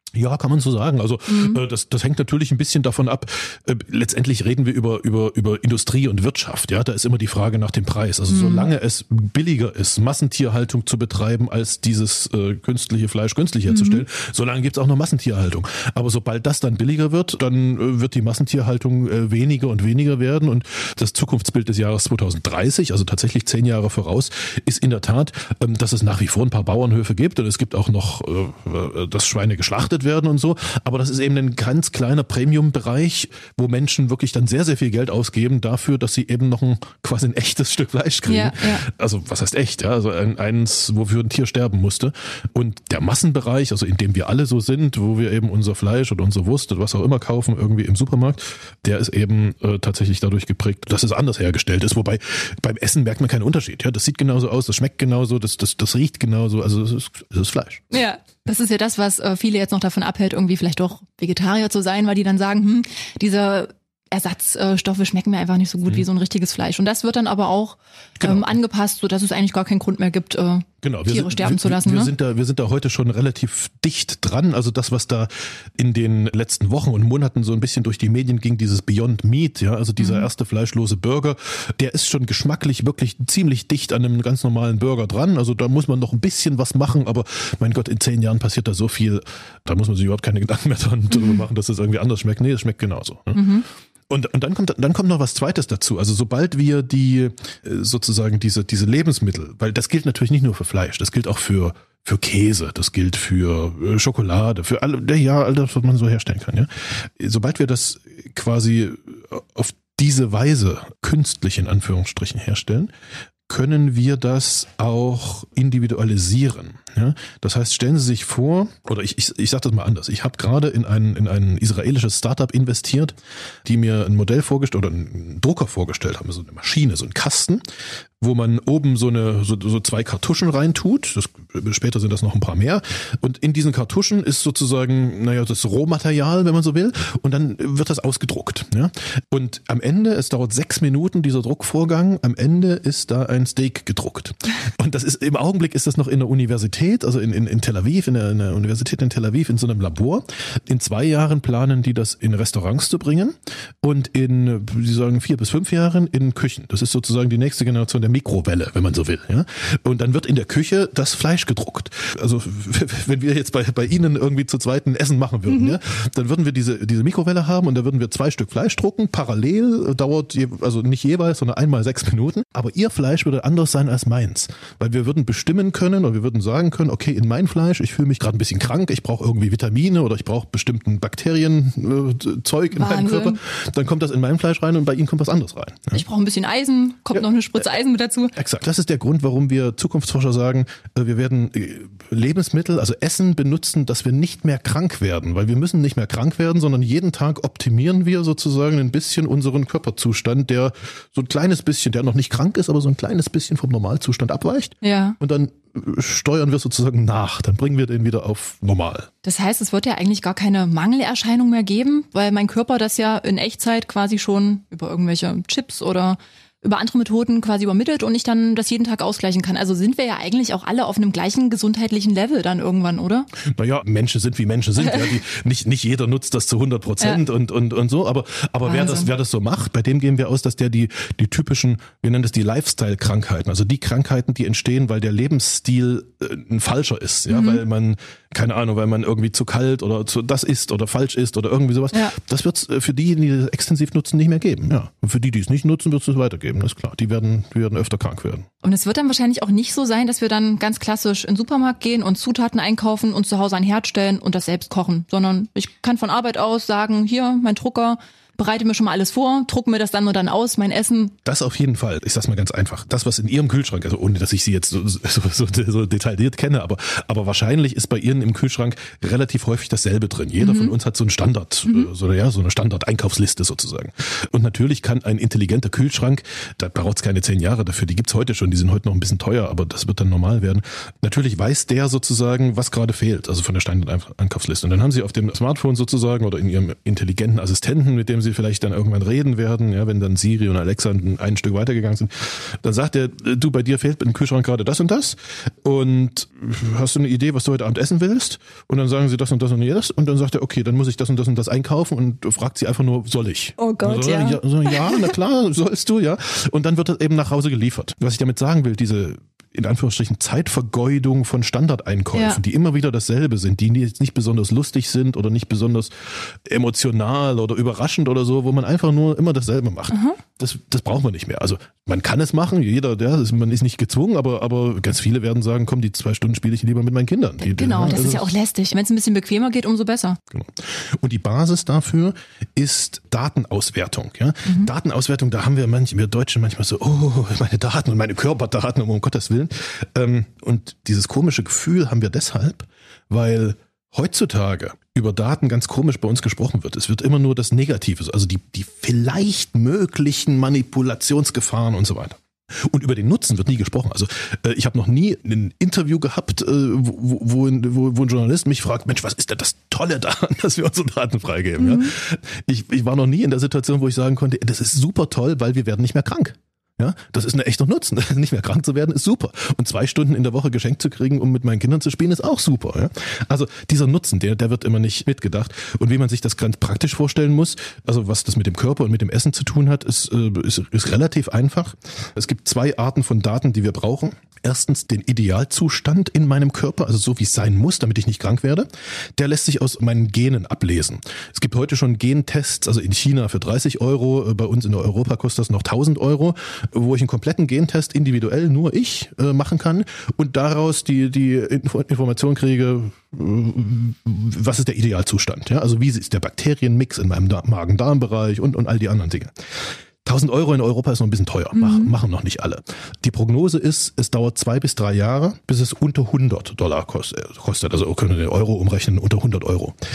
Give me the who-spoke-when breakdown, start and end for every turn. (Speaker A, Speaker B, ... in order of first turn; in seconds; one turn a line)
Speaker A: 0.1-57.8
Speaker B: 1.3-1.6
Speaker B: 8.3-8.7
Speaker B: 13.7-14.0
Speaker B: 38.3-38.8
Speaker B: 57.9-72.1
Speaker A: 68.2-68.5
Speaker A: 70.8-112.9
Speaker B: 80.0-80.3
Speaker B: 93.3-93.7
Speaker A: 113.5-127.6
Speaker A: 128.2-186.0
Speaker B: 165.5-165.7
Speaker B: 182.7-183.4
Speaker B: 185.9-188.3
Speaker A: 188.3-209.1
Speaker B: 204.8-205.2
Speaker B: 209.2-223.3
Speaker A: 223.5-248.5
Speaker B: 224.8-225.1
Speaker B: 228.6-229.1
Speaker B: 237.3-237.6
Speaker B: 248.6-261.1
Speaker A: 261.2-328.3
Speaker B: 270.4-270.7
Speaker B: 303.6-305.1
Speaker B: 312.1-312.4
Speaker B: 319.9-320.2
Speaker B: 327.4-330.2
Speaker A: 330.3-409.3
Speaker B: 361.6-361.9
Speaker A: 410.0-419.8
Speaker B: 411.5-411.9